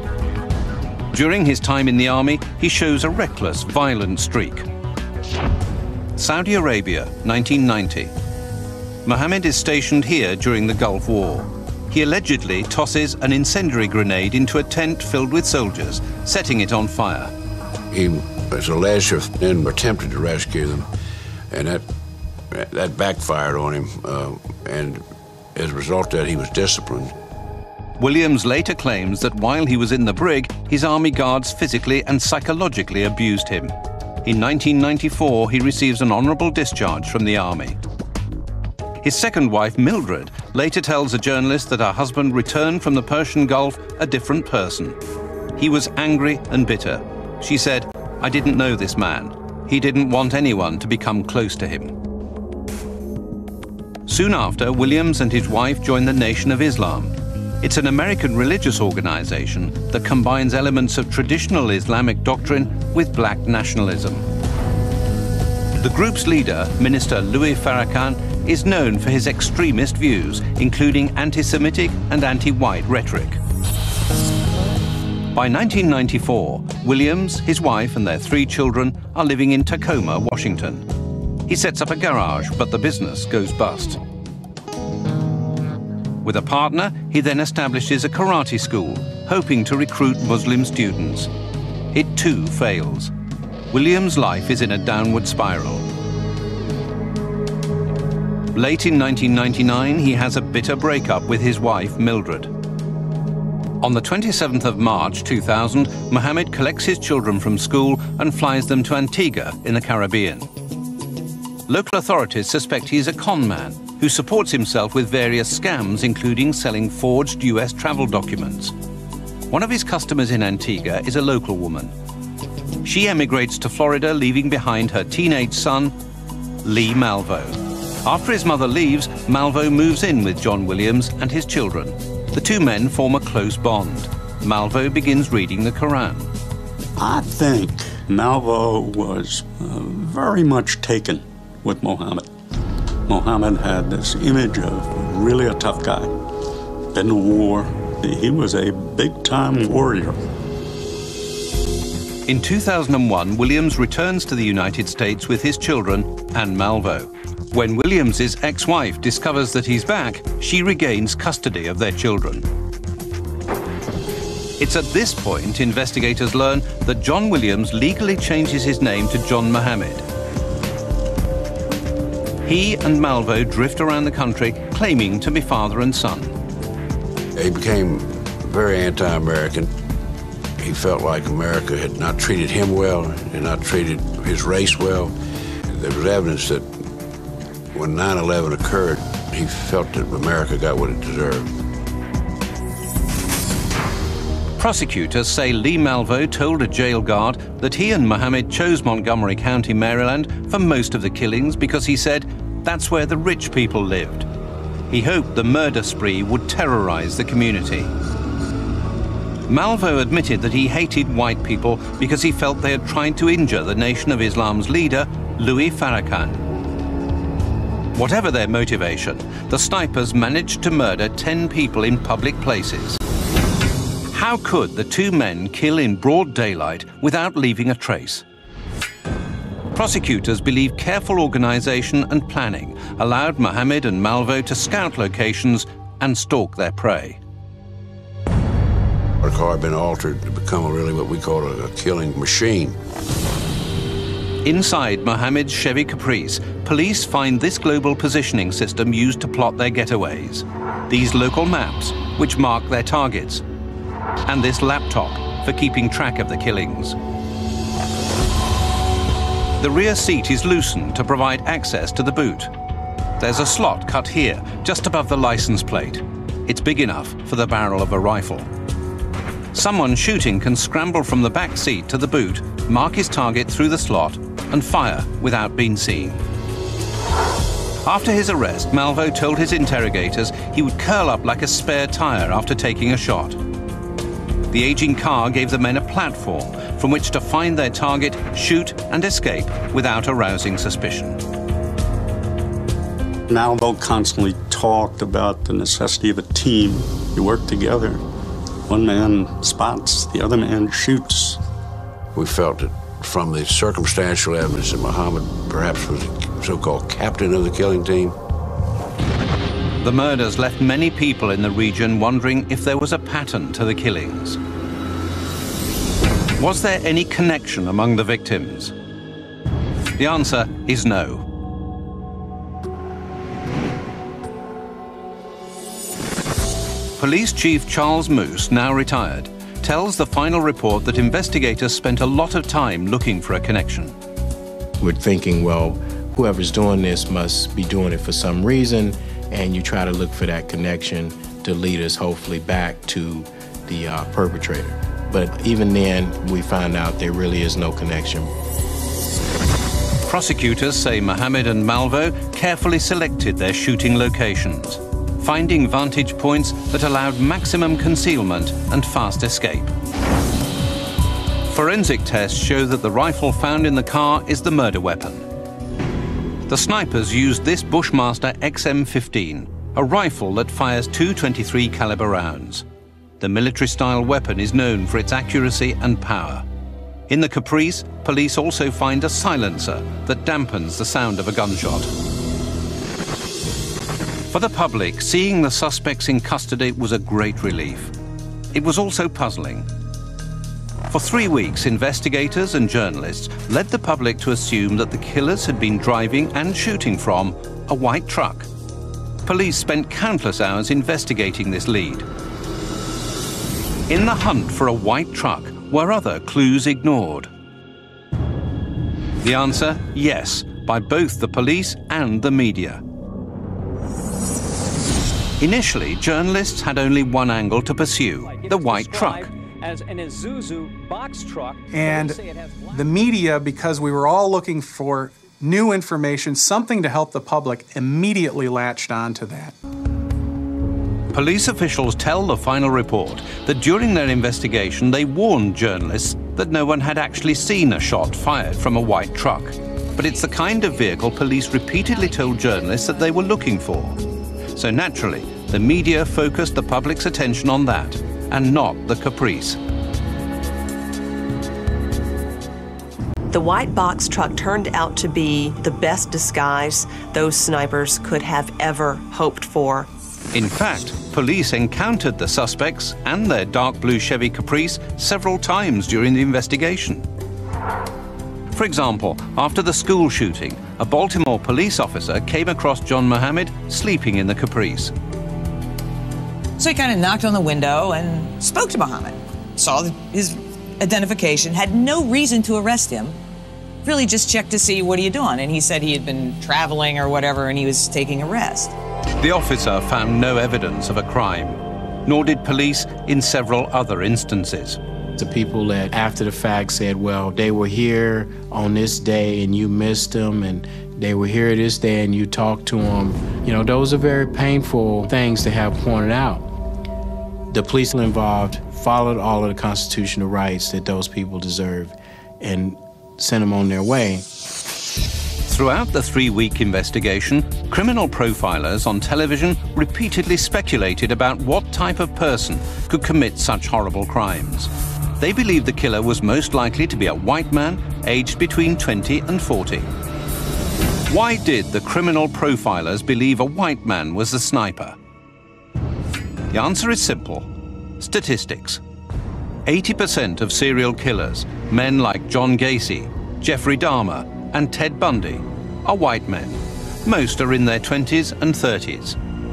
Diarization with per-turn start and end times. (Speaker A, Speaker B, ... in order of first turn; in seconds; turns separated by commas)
Speaker A: 1.1-4.7, Speaker A: 6.2-8.1, Speaker A: 9.0-17.3, Speaker B: 17.9-20.9, Speaker B: 21.5-21.8, Speaker B: 22.5-25.0, Speaker B: 25.5-27.1, Speaker A: 28.0-33.7, Speaker A: 34.2-37.8, Speaker A: 39.0-45.0, Speaker A: 45.6-51.9, Speaker A: 54.1-64.2, Speaker A: 65.8-73.4, Speaker A: 75.3-80.8, Speaker A: 81.5-84.0, Speaker A: 86.2-91.3, Speaker A: 91.9-93.1, Speaker A: 93.7-95.8, Speaker A: 98.5-102.5, Speaker A: 103.8-110.5, Speaker A: 111.7-118.7, Speaker A: 119.5-121.9, Speaker A: 122.8-125.9, Speaker A: 126.6-136.3, Speaker C: 137.0-142.3, Speaker C: 143.1-146.1, Speaker C: 146.9-150.2, Speaker A: 152.3-162.4, Speaker A: 164.6-170.0, Speaker A: 172.4-176.3, Speaker B: 177.3-179.7, Speaker B: 180.6-185.1, Speaker B: 185.7-186.7, Speaker B: 187.7-191.5, Speaker A: 194.6-204.3, Speaker A: 204.9-207.9, Speaker A: 209.5-216.4, Speaker A: 217.9-223.0, Speaker A: 224.1-228.2, Speaker A: 229.7-237.2, Speaker B: 239.2-242.8, Speaker A: 244.4-253.4, Speaker A: 254.2-256.9, Speaker A: 259.6-262.5, Speaker A: 263.2-268.5, Speaker A: 269.5-276.2, Speaker A: 277.8-283.4, Speaker A: 284.5-291.2, Speaker C: 293.3-298.0, Speaker C: 298.7-301.4, Speaker B: 302.1-308.1, Speaker A: 309.8-314.4, Speaker A: 316.4-318.7, Speaker A: 320.0-321.2, Speaker A: 327.0-333.9, Speaker D: 334.8-348.3, Speaker A: 350.1-359.7, Speaker A: 361.5-365.2, Speaker A: 366.5-372.6, Speaker A: 373.2-376.4, Speaker A: 377.1-381.9, Speaker A: 384.3-387.9, Speaker A: 388.5-389.7, Speaker A: 390.9-398.5, Speaker A: 399.2-402.1, Speaker A: 403.9-407.3, Speaker A: 409.2-412.8, Speaker A: 415.4-419.3, Speaker E: 418.2-422.9, Speaker F: 421.7-422.2, Speaker F: 422.7-429.5, Speaker A: 431.1-444.0, Speaker A: 444.5-449.6, Speaker G: 453.3-459.9, Speaker A: 460.3-467.1, Speaker A: 468.5-474.9, Speaker H: 476.6-483.2, Speaker H: 483.8-488.7, Speaker A: 489.2-494.8, Speaker D: 495.2-506.4, Speaker D: 507.5-514.2, Speaker A: 515.5-529.9, Speaker A: 531.1-535.0, Speaker A: 536.5-537.5, Speaker A: 538.0-538.8, Speaker A: 539.6-549.2